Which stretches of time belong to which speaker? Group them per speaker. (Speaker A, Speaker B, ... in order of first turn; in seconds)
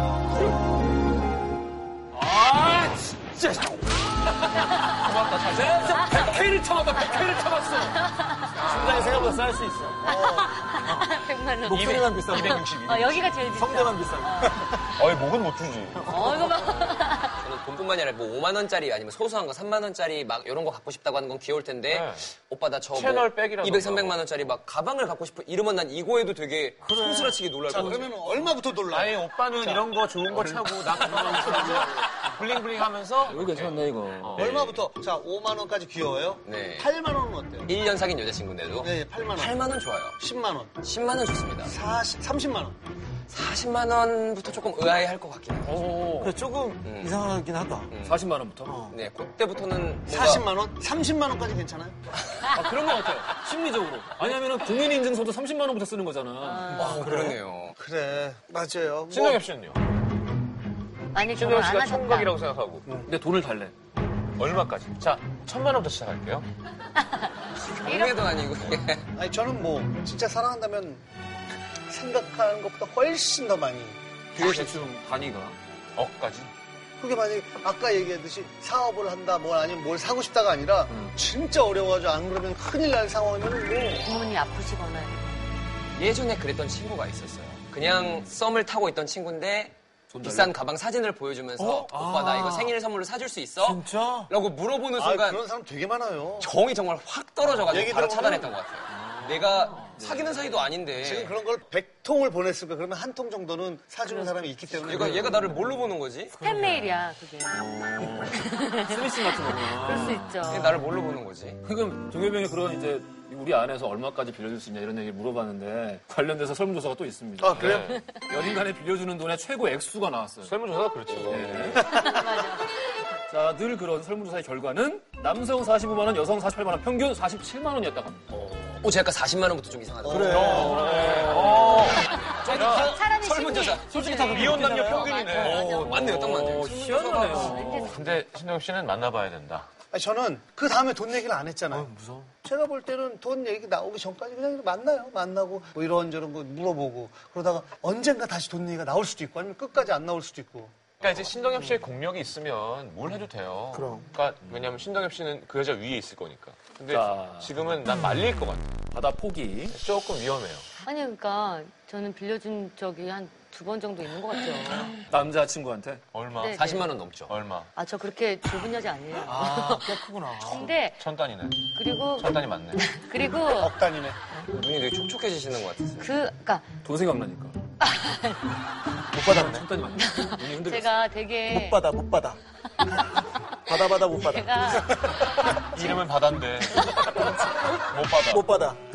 Speaker A: 2.1-8.2, 8.7-9.2, 31.1-31.6, 33.3-34.4, 45.6-46.4, 48.0-48.8, 52.5-56.9, 63.1-63.7, 74.4-75.6, 80.9-81.2, 90.1-90.5, 98.9-100.7, 106.4-110.4, 111.6-120.5, 121.3-122.2, 123.3-128.8, 130.3-133.0, 133.8-138.0, 156.9-157.5, 158.9-159.8, 165.1-166.0, 176.8-177.6, 179.2-181.0
Speaker B: 4.9-6.2, 8.7-9.2, 11.7-13.3, 15.0-16.6, 21.9-22.2, 22.9-24.6, 28.9-34.8, 59.1-59.8, 61.3-62.9, 64.4-66.5, 76.0-76.5, 117.4-118.1, 120.4-121.9, 130.6-133.0, 134.2-135.7, 137.9-139.7, 151.0-158.9, 159.7-160.7, 166.1-167.7, 171.0-172.8, 185.4-188.5
Speaker C: 7.9-8.6, 10.1-14.6, 16.1-17.4, 56.5-56.8, 61.1-62.4, 67.0-68.2, 84.0-85.4, 104.0-104.4, 106.4-107.7, 108.3-110.8, 121.8-123.1, 132.5-134.4, 135.0-135.9, 137.3-138.0, 160.8-165.0, 166.3-166.9, 167.8-171.0, 171.7-173.7, 176.0-176.7, 177.8-178.4, 179.9-181.8, 184.2-184.8
Speaker D: 8.6-10.0, 11.7-12.7, 13.5-14.9, 16.1-16.4, 26.8-28.1, 30.6-31.1, 46.2-47.9, 48.6-49.0, 57.0-57.4, 91.6-92.7, 93.6-94.3, 130.0-131.3, 133.9-135.2, 141.7-142.3, 153.7-154.1, 169.2-170.8, 179.1-179.7, 181.4-182.4, 183.1-185.5, 188.2-188.8
Speaker E: 10.0-10.5, 27.7-29.8, 31.4-31.8, 34.4-37.8, 38.8-40.8, 41.6-42.8, 50.1-52.0, 56.7-57.2, 57.8-59.4, 69.2-71.0, 71.9-74.8, 77.0-84.1, 95.0-96.5, 97.7-98.5, 101.0-105.6, 117.4-117.8, 130.1-130.7, 139.9-141.9, 142.4-150.8, 173.5-174.2
Speaker F: 17.4-28.1, 31.1-31.7, 34.4-34.8, 36.4-36.9, 37.7-40.2, 40.8-41.7, 43.3-45.9, 46.8-47.2, 47.9-48.2, 48.9-50.5, 56.7-57.8, 67.8-69.1, 86.0-95.5, 96.4-101.3, 104.7-106.4, 110.4-111.6, 128.8-134.0, 135.3-137.8, 166.5-167.3, 174.5-176.1